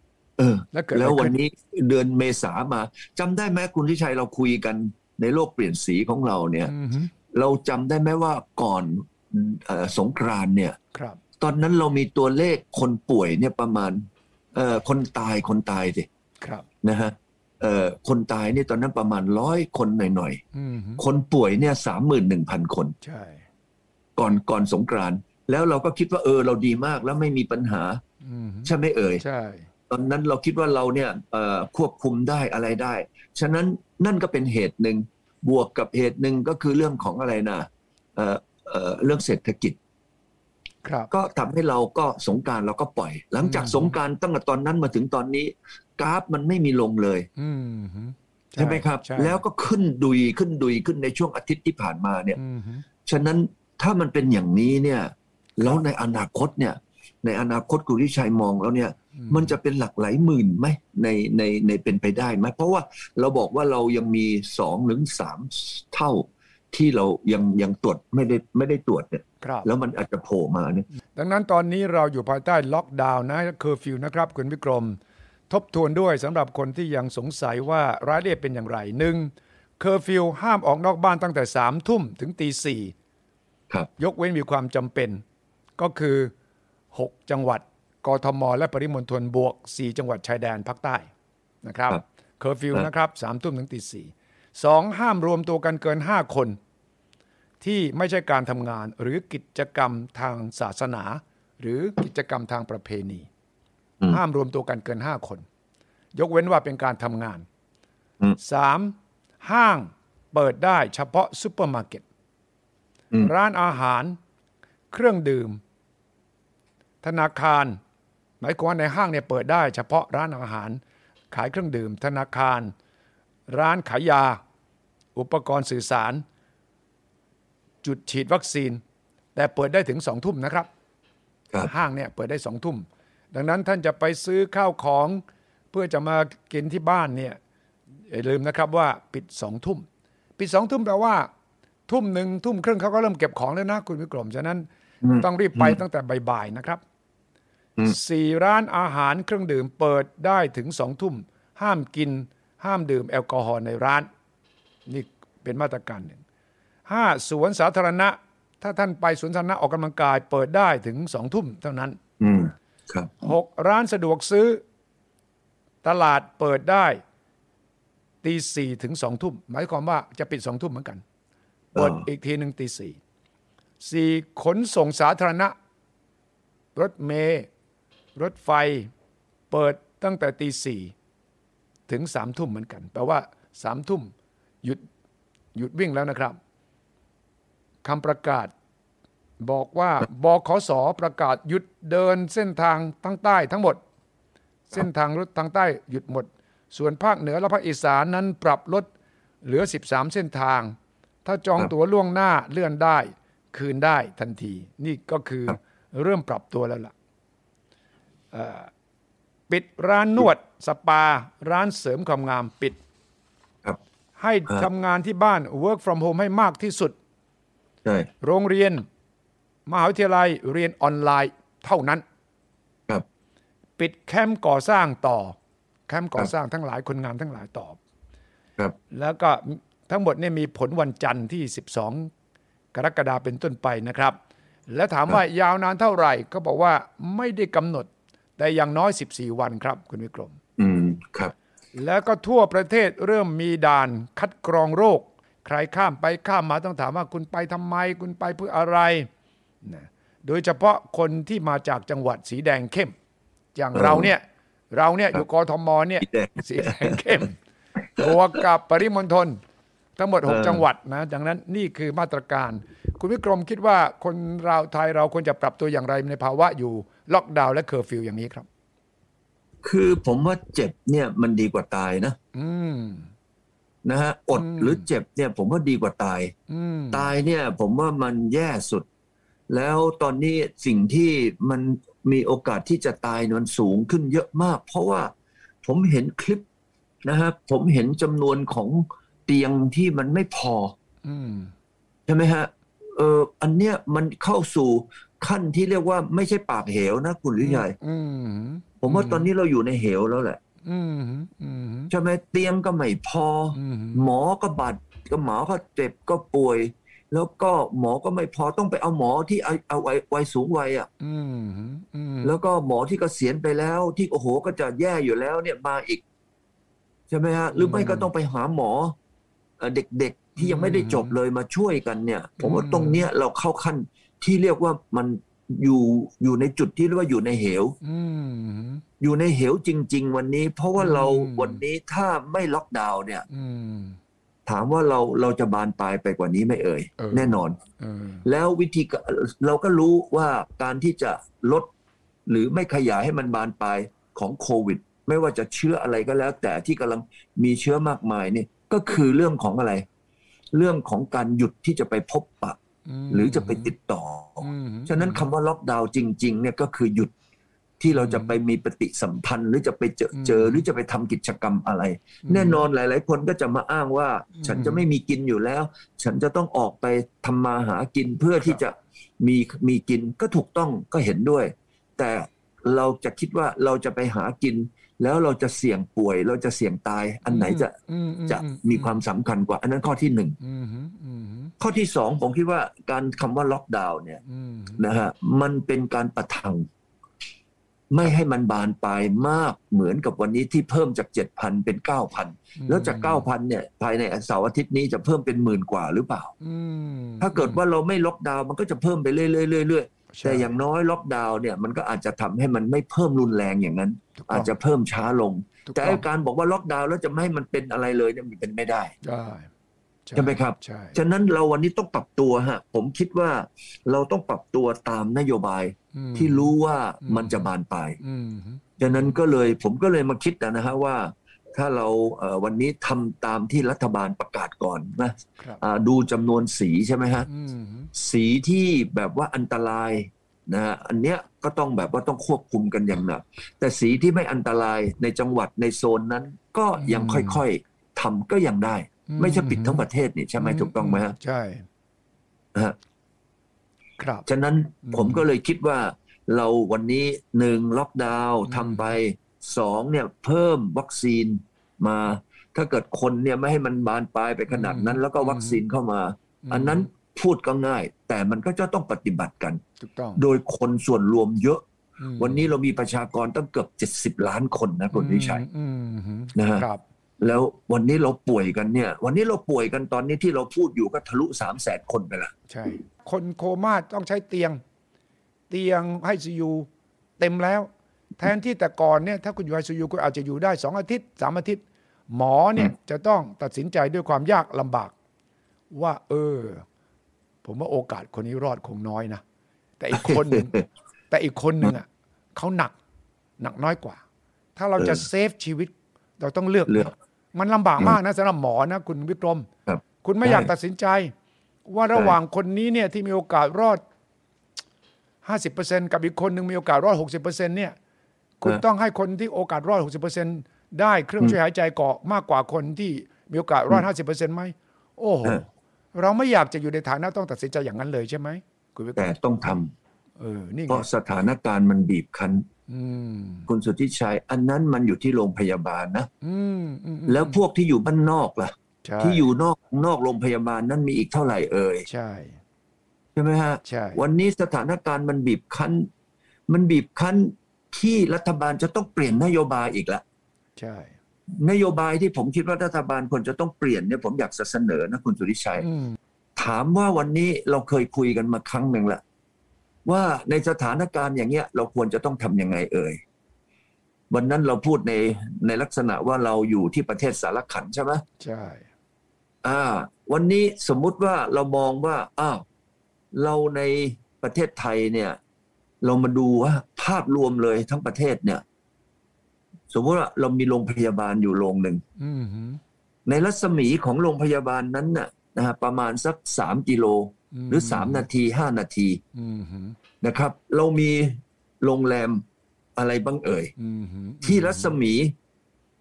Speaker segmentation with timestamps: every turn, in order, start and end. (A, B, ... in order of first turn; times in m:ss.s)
0:00.4-0:06.7 A
0:00.7-0:01.4 B
0:06.7-0:07.1 B
0:07.3-0:10.8 A
0:10.9-0:11.2 B
0:11.4-0:16.1 A
0:16.4-0:16.7 B
0:16.8-0:20.4 A
0:20.5-0:21.0 B
0:21.0-0:22.9 A
0:23.0-0:23.4 B
0:24.2-0:28.0 A
0:28.2-0:29.7 B
0:28.6-0:29.2 A
0:29.9-0:39.8 A
0:40.8-0:41.1 B
0:41.1-0:47.3 A
0:43.4-0:43.9 B
0:47.4-0:49.4 B
0:48.6-0:52.4 A
0:52.4-0:52.8 B
0:53.0-1:10.9 A
0:59.1-0:59.5 B
1:09.4-1:09.7 B
1:11.1-1:15.0 B
1:15.5-1:22.9 B
1:24.0-1:25.2 B
1:25.8-1:26.3 B
1:26.9-1:31.1 B
1:31.6-1:36.6 B
1:37.6-1:43.3 B
1:44.1-1:45.4 B
1:46.1-1:47.4 B
1:48.4-1:52.0 B
1:53.2-1:54.2 B
1:54.9-1:55.6 B
1:57.0-1:57.8 B
1:58.4-2:00.8 B
2:01.3-2:02.7 B
2:03.5-2:04.4 B
2:05.1-2:06.2 B
2:07.8-2:08.8 B
2:09.3-2:10.7 B
2:11.6-2:17.4 B
2:18.1-2:19.8 B
2:20.4-2:21.3 B
2:21.9-2:26.8 B
2:25.0-2:25.8 A
2:27.8-2:34.1 B
2:34.9-2:36.2 B
2:36.9-2:42.0 B
2:42.2-2:43.2 A
2:43.2-2:44.6 B
2:45.8-2:47.0 B
2:48.2-2:51.0 B
2:51.7-2:52.0 A
2:51.7-2:53.0 B
2:53.8-2:55.5 B
2:56.7-2:57.5 B
2:58.2-2:58.9 B
2:59.5-3:00.9 B
3:01.9-3:04.8 B
3:05.5-3:06.4 B
3:07.8-3:08.5 B
3:09.4-3:13.8 B
3:14.7-3:18.9 B
3:19.4-3:26.9 B
3:28.3-3:28.7 B
3:29.5-3:32.8 B
3:34.2-3:37.0 B
3:38.2-3:38.8 B
3:39.7-3:42.0 B
3:43.8-3:45.4 B
3:45.9-3:47.8 B
3:48.9-3:52.1 B
3:52.7-3:54.2 B
3:54.7-4:00.4 B
4:00.6-4:01.3 A
4:01.7-4:09.1 B
4:09.6-4:12.9 B
4:13.5-4:17.4 B
4:13.7-4:14.1 A
4:16.0-4:17.0 A
4:17.9-4:19.4 B
4:20.0-4:28.5 B
4:20.2-4:20.6 A
4:29.6-4:32.2 A
4:32.3-4:33.1 B
4:33.8-4:36.3 A
4:34.3-4:34.9 B
4:36.5-4:37.1 B
4:36.9-4:38.8 A
4:39.5-4:45.1 A
4:45.6-4:46.4 A
4:47.0-4:50.7 A
4:51.0-4:51.5 B
4:52.1-4:57.7 A
4:57.4-4:59.3 B
4:58.8-5:00.4 A
5:00.6-5:01.9 B
5:01.9-5:10.9 A
5:03.5-5:04.1 B
5:11.0-5:12.4 B
5:12.2-5:16.0 A
5:17.1-5:19.0 A
5:17.6-5:18.1 B
5:19.6-5:27.8 A
5:20.4-5:21.2 B
5:22.4-5:23.0 B
5:27.8-5:28.8 B
5:29.0-5:33.2 A
5:30.8-5:31.6 B
5:33.3-5:34.0 B
5:34.4-5:37.6 A
5:37.0-5:38.2 B
5:38.2-5:41.7 A
5:42.3-5:49.8 A
5:50.5-5:52.6 A
5:52.8-5:53.7 B
5:53.1-5:57.1 A
5:54.4-5:55.2 B
5:57.8-6:17.7 A
5:57.9-5:58.4 B
6:00.1-6:00.6 B
6:02.2-6:02.6 B
6:04.3-6:04.8 B
6:17.3-6:19.0 B
6:18.3-6:20.4 A
6:20.4-6:21.5 B
6:21.6-6:24.2 A
6:24.2-6:24.8 B
6:24.8-6:26.7 A
6:27.9-6:36.3 A
6:32.6-6:33.2 B
6:36.4-6:37.6 B
6:37.2-6:48.9 A
6:40.1-6:40.5 B
6:44.2-6:44.5 B
6:45.6-6:46.0 B
6:49.0-6:49.5 B
6:50.0-6:51.0 B
6:50.2-6:58.0 A
6:55.9-6:57.5 B
6:58.0-6:59.1 B
6:58.8-7:07.3 A
7:07.3-7:07.9 B
7:07.9-7:21.2 A
7:16.8-7:17.4 B
7:19.1-7:19.8 B
7:20.4-7:21.6 B
7:24.0-7:24.3 B
7:24.2-7:39.6 A
7:24.8-7:25.2 B
7:28.4-7:28.9 B
7:34.5-7:35.6 B
7:36.4-7:36.9 B
7:39.8-7:40.2 B
7:40.2-7:41.6 A
7:42.0-7:42.5 B
7:42.2-7:45.4 A
7:44.9-7:46.8 B
7:46.3-7:46.6 A
7:47.2-7:52.3 A
7:52.5-7:54.6 B
7:55.5-7:56.7 B
7:57.2-8:04.9 B
8:05.7-8:06.6 B
8:07.4-8:09.2 B
8:09.8-8:10.6 B
8:10.0-8:10.6 A
8:11.1-8:12.7 B
8:13.4-8:14.0 B
8:14.6-8:19.5 B
8:19.7-8:20.5 A
8:20.0-8:21.1 B
8:21.7-8:23.8 B
8:25.2-8:27.8 B
8:28.4-8:39.1 B
8:39.0-8:39.7 A
8:40.2-8:40.9 B
8:40.7-8:42.4 A
8:42.7-8:43.5 B
8:43.5-8:46.1 A
8:46.2-8:47.4 B
8:47.1-8:51.8 A
8:48.8-8:49.2 B
8:51.9-8:52.4 B
8:53.2-8:55.9 A
8:53.6-8:54.0 B
8:56.5-9:00.0 A
9:00.6-9:00.9 B
9:01.4-9:05.6 A
9:05.6-9:06.0 B
9:06.4-9:09.0 A
9:09.8-9:13.0 A
9:14.1-9:18.0 A
9:18.2-9:18.7 B
9:19.4-9:22.4 A
9:23.1-9:25.2 A
9:25.8-9:28.4 A
9:29.7-9:31.8 A
9:32.0-9:32.6 B
9:33.0-9:39.0 A
9:37.3-9:38.0 B
9:39.1-9:39.8 B
9:40.0-9:42.2 A
9:42.8-9:43.5 A
9:43.6-9:44.8 B
9:44.2-9:45.1 A